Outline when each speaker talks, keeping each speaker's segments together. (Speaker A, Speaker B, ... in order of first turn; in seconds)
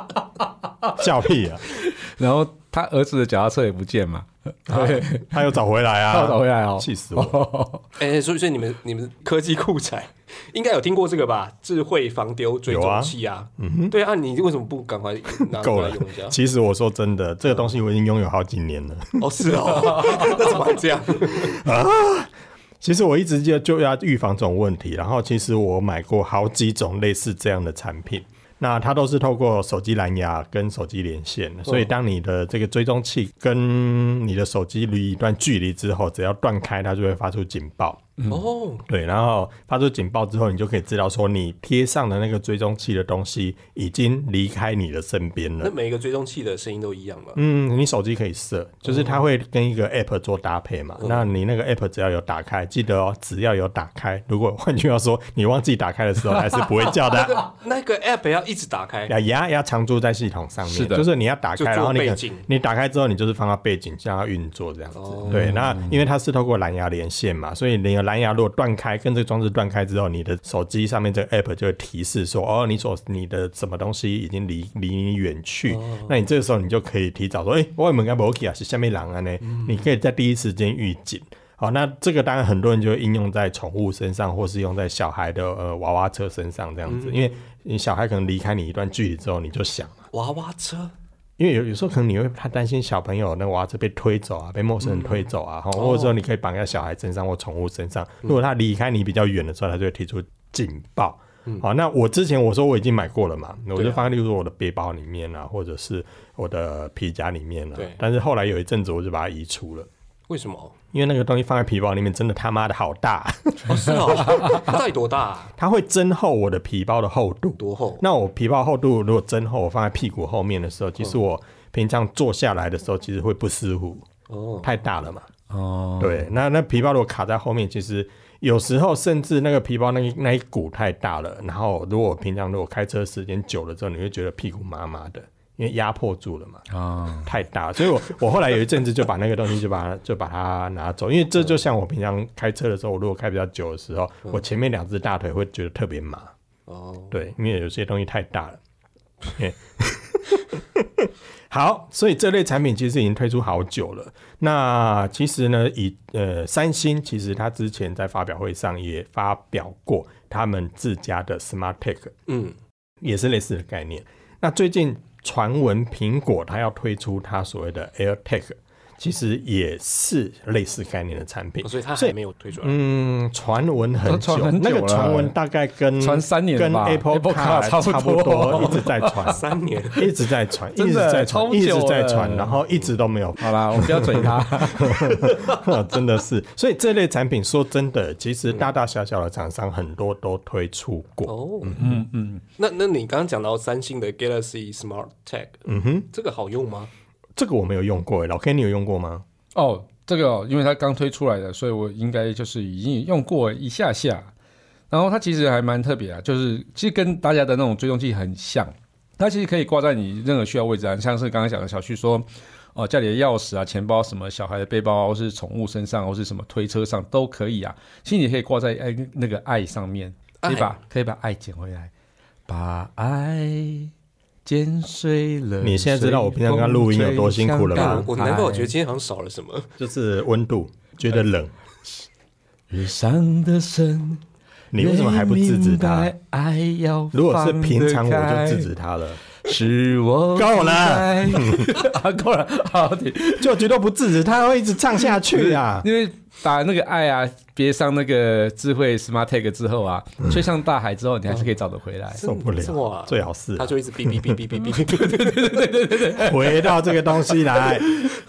Speaker A: 0.9-1.6, 4.7-7.4, 12.7-13.9, 15.5-20.5, 21.3-38.1, 38.9-45.7, 47.4-57.4, 59.1-90.1, 91.4-109.9, 110.9-114.6, 115.6-124.1, 124.6-125.3, 126.0-136.7, 137.2-146.3, 147.1-148.6, 149.3-162.2, 163.0-179.4, 180.0-191.9, 195.7-196.1, 197.4-199.2, 225.6-228.1, 229.8-231.5, 234.7-236.1, 237.1-239.2, 240.4-241.8, 243.4-245.9, 252.2-254.4, 256.2-257.9
Speaker B: 1.8-5.3, 6.1-7.9, 60.6-61.1, 65.3-66.0, 125.5-126.3, 136.7-137.3, 174.1-175.3, 176.0-179.3, 180.8-182.6, 183.4-185.4, 191.8-192.4, 199.6-204.3, 204.9-221.9, 222.5-223.9, 224.4-228.7, 232.7-234.2, 234.8-238.7, 239.4-243.5, 245.1-252.2, 254.8-258.1
Speaker C: 8.0-16.4, 19.2-21.6, 38.3-38.8, 45.6-47.4, 48.9-49.2, 51.0-51.2, 57.1-59.1, 61.6-62.5, 65.0-65.4, 75.7-76.2, 79.4-79.8, 86.9-87.4, 90.1-90.9, 94.8-96.2, 103.8-104.0, 110.3-110.8, 113.7-115.5, 117.6-118.0, 124.3-124.7, 146.7-147.2, 162.3-162.6, 171.6-172.8, 178.5-180.1, 191.3-191.9, 192.6-196.9, 220.4-220.8, 227.7-229.7, 252.2-255.6